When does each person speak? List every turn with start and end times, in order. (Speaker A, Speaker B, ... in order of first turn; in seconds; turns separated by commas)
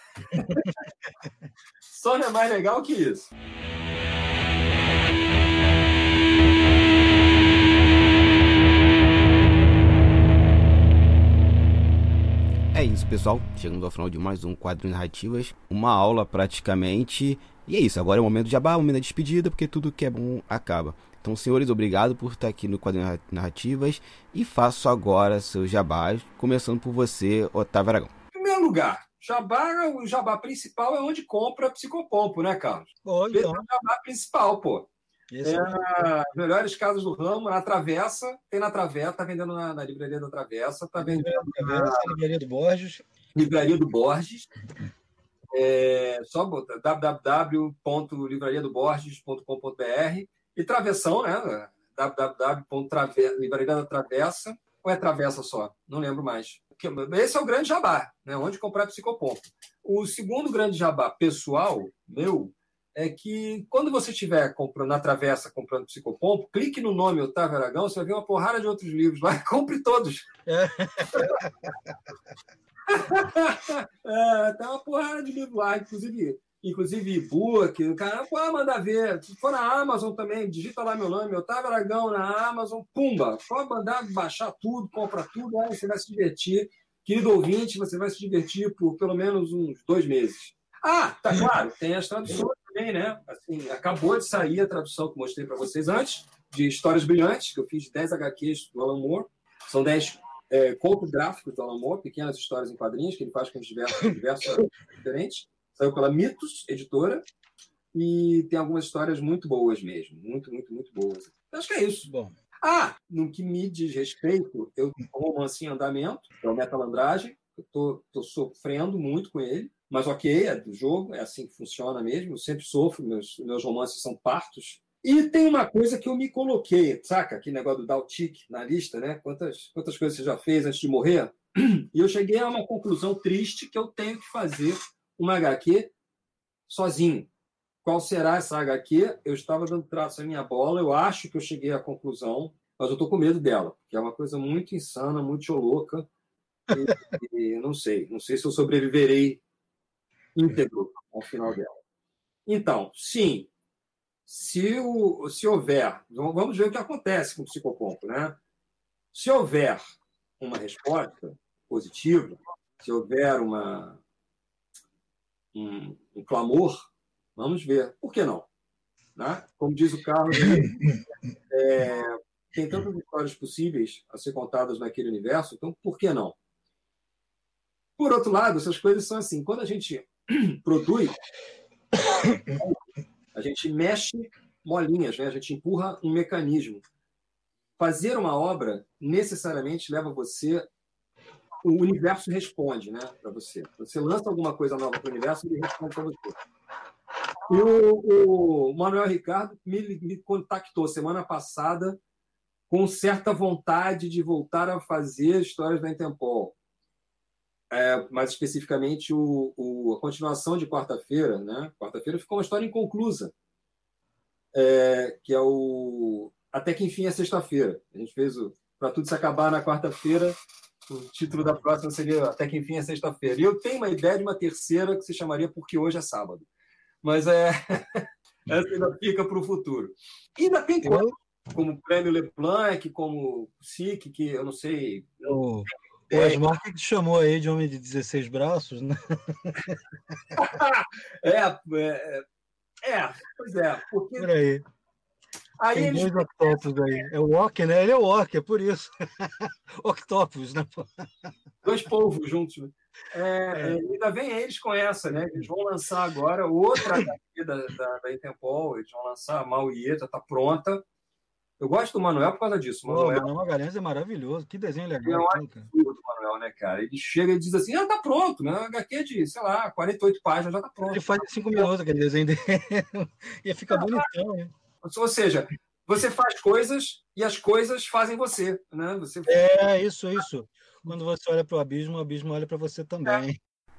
Speaker A: 0.3-0.7, Speaker A: 1.9-3.3, Speaker B: 12.7-28.1, Speaker A: 28.3-34.9, Speaker C: 33.0-33.6, Speaker C: 35.3-36.1, Speaker A: 35.4-42.1, Speaker C: 41.0-43.0, Speaker A: 43.3-44.5, Speaker A: 45.5-70.2, Speaker C: 70.5-71.7, Speaker A: 72.9-107.2, Speaker A: 107.9-112.1, Speaker C: 112.1-112.3, Speaker A: 112.6-135.9, Speaker A: 136.7-137.3, Speaker A: 137.8-146.1, Speaker A: 146.7-149.4, Speaker A: 150.3-151.7, Speaker A: 152.5-153.5, Speaker A: 154.3-158.3, Speaker A: 159.1-159.8, Speaker A: 160.4-164.0, Speaker A: 165.5-168.4, Speaker A: 169.2-170.7, Speaker A: 171.5-176.3, Speaker A: 178.0-181.2, Speaker A: 182.3-182.8, Speaker A: 183.3-186.8, Speaker A: 187.8-190.6, Speaker A: 191.6-196.3, Speaker A: 197.5-202.0, Speaker A: 202.7-206.5, Speaker A: 207.7-213.3, Speaker A: 214.5-220.3, Speaker A: 220.9-226.4, Speaker A: 227.0-235.4, Speaker C: 230.8-231.1, Speaker C: 235.2-239.8, Speaker A: 236.1-236.4, Speaker A: 240.3-242.2, Speaker A: 242.8-244.3, Speaker C: 244.2-244.6, Speaker A: 245.6-247.0, Speaker C: 245.7-251.3, Speaker A: 251.6-260.8, Speaker A: 261.6-263.2, Speaker C: 262.9-265.7, Speaker A: 265.0-271.7, Speaker C: 270.9-274.5, Speaker A: 273.7-274.1, Speaker A: 274.8-279.7, Speaker C: 279.3-283.4